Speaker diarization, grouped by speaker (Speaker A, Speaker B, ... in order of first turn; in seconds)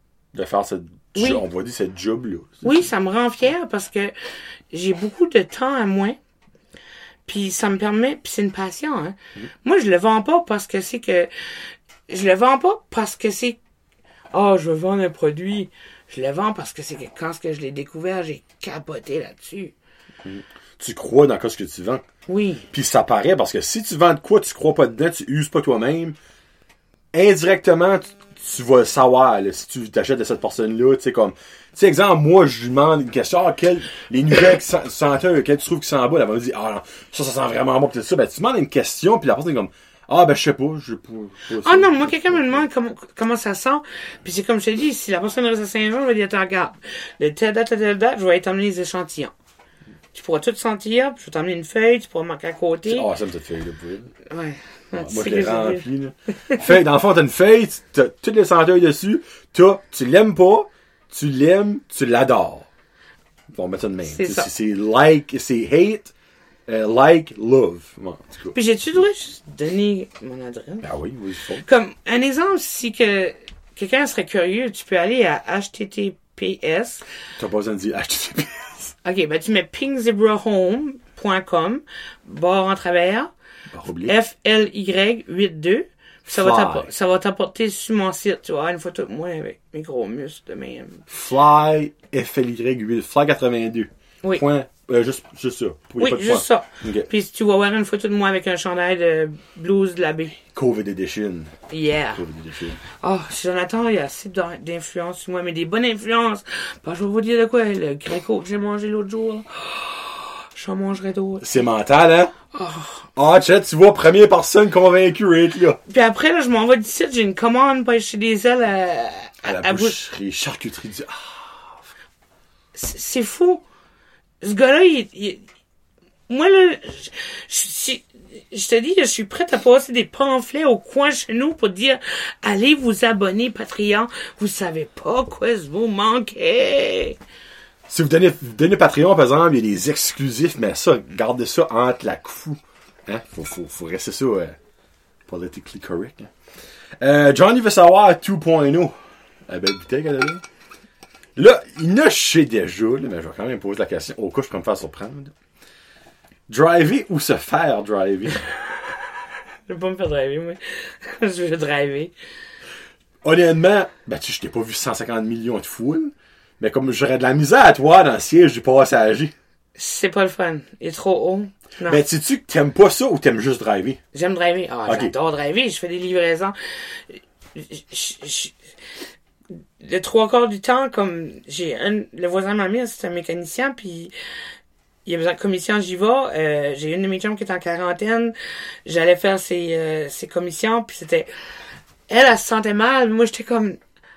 Speaker A: 0.3-2.8, 20.2-22.0, 22.7-26.2, 27.1-42.6, 52.9-54.1, 54.9-62.7, 63.5-66.1, 66.7-68.6, 70.8-71.6, 77.4-78.9, 83.7-84.1, 86.3-86.9, 91.1-97.1, 100.5-101.5, 102.1-102.8, 111.4-112.3, 113.1-115.8, 119.4-121.8, 137.9-144.6, 145.3-146.3, 147.0-148.9, 149.5-150.4, 151.4-155.3, 156.5-158.4, 163.2-169.3, 171.8-174.0, 174.9-175.1
Speaker B: 1.1-1.4, 2.6-4.1, 4.7-6.2, 7.2-11.3, 12.1-13.6, 14.3-19.7, 22.3-22.7, 41.6-49.3, 50.1-53.1, 54.3-55.8, 64.1-64.5, 68.5-70.8, 71.6-77.0, 79.0-83.3, 84.0-91.0, 96.0-100.4, 101.7-102.2, 102.9-111.5, 112.5-113.1, 115.9-120.0, 122.7-123.6, 124.4-125.4, 126.3-137.2, 159.7-162.1, 169.8-172.0, 174.1-178.6, 179.8-184.1, 185.0-188.3, 188.8-191.3, 192.1-193.8